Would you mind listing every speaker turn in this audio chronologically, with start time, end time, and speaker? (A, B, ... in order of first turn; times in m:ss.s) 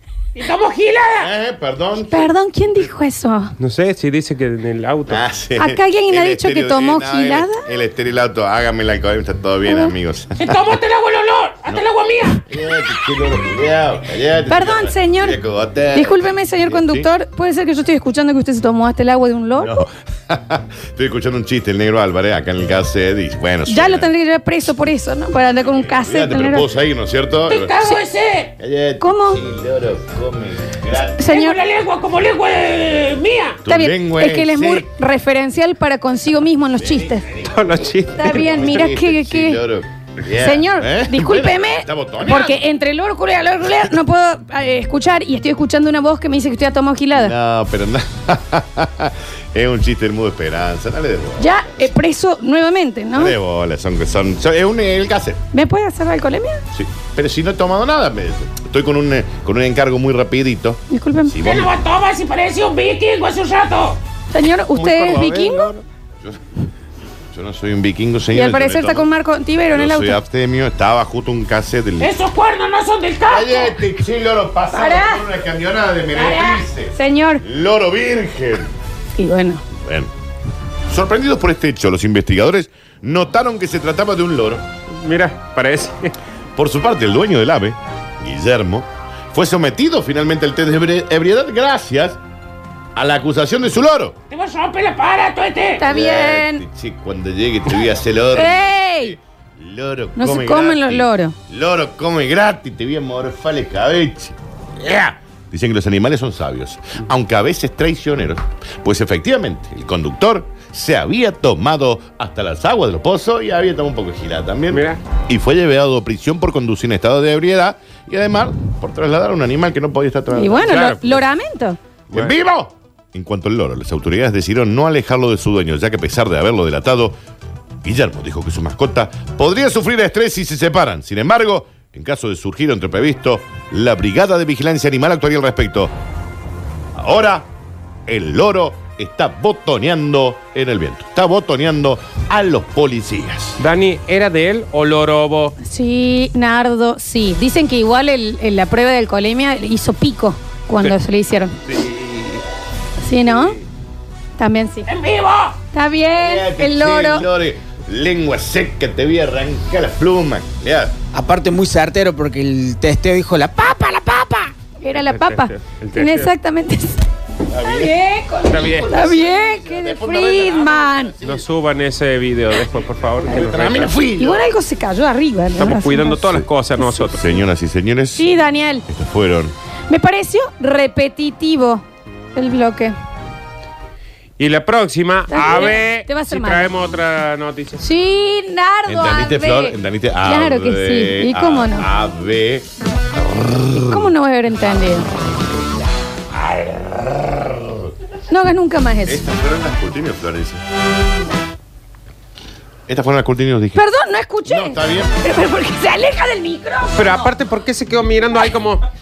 0:00.3-0:01.3 A
0:01.2-0:02.3 B
0:02.0-0:03.5 C
0:03.6-0:05.2 D
0:05.1-0:10.7 B
0:05.6-0:07.6 C
0:09.6-0:09.9 C
0:10.4-0:12.4 A
0:12.4-0:17.1 B
0:14.5-0:15.4 C
0:15.9-0:19.8 C
0:19.6-0:24.1 B
0:23.7-0:26.7 C
0:25.5-0:27.7 B
0:27.5-0:28.5 A
0:27.7-0:28.0 C
0:28.6-0:31.2 B
0:29.0-0:29.4 C
0:31.2-0:31.6 C
0:31.2-0:33.6 A
0:33.6-0:34.8 B
0:33.7-0:37.3 C
0:36.8-0:42.6 B
0:37.4-0:38.8 D
0:38.2-0:39.6 C
0:40.4-0:47.3 C
0:47.1-0:51.9 B
0:51.4-0:53.4 C
0:53.2-0:55.4 B
0:55.5-0:56.6 C
0:56.7-1:01.7 B
1:00.9-1:01.4 C
1:01.4-1:04.0 A
1:04.3-1:05.7 C
1:04.8-1:05.7 B
1:05.5-1:05.8 D
1:07.3-1:09.1 B
1:08.3-1:10.2 C
1:09.7-1:12.1 B
1:12.0-1:13.8 A
1:13.3-1:18.7 B
1:14.7-1:15.2 C
1:16.1-1:17.4 C
1:19.2-1:19.6 C
1:19.8-1:20.1 B
1:20.9-1:24.6 B
1:24.9-1:26.1 D
1:26.6-1:32.2 B
1:33.0-1:34.2 B
1:34.3-1:35.8 A
1:35.8-1:36.6 C
1:35.8-2:01.2 B
1:38.3-1:39.2 C
1:40.2-1:41.3 C
1:54.7-1:55.0 D
2:00.3-2:01.8 C
2:00.6-2:01.2 D
2:02.1-2:07.2 B
2:07.8-2:15.9 B
2:16.9-2:17.5 B
2:18.1-2:23.6 B
2:23.6-2:25.6 D
2:25.6-2:31.5 C
2:31.7-2:32.4 B
2:33.0-2:33.6 C
2:34.4-2:34.9 C
2:34.8-2:35.6 A
2:35.7-2:37.3 C
2:36.2-2:41.0 B
2:41.1-2:44.4 E
2:44.8-2:47.0 C
2:44.9-2:46.3 D
2:47.5-2:51.4 B
2:47.6-2:51.1 C
2:48.5-2:49.0 D
2:51.2-2:53.9 D
2:53.2-2:54.5 B
2:54.2-2:57.1 C
2:55.6-2:57.4 D
2:57.1-2:59.5 B
2:58.2-2:58.8 C
2:59.9-3:01.8 C
3:02.3-3:02.9 C
3:04.4-3:07.8 D
3:05.3-3:06.7 C
3:07.8-3:11.9 C
3:08.9-3:14.1 B
3:13.7-3:15.1 C
3:16.3-3:17.9 B
3:18.3-3:19.2 C
3:19.0-3:20.6 B
3:22.9-3:23.8 B
3:23.7-3:27.3 C
3:24.5-3:25.1 B
3:27.0-3:28.8 D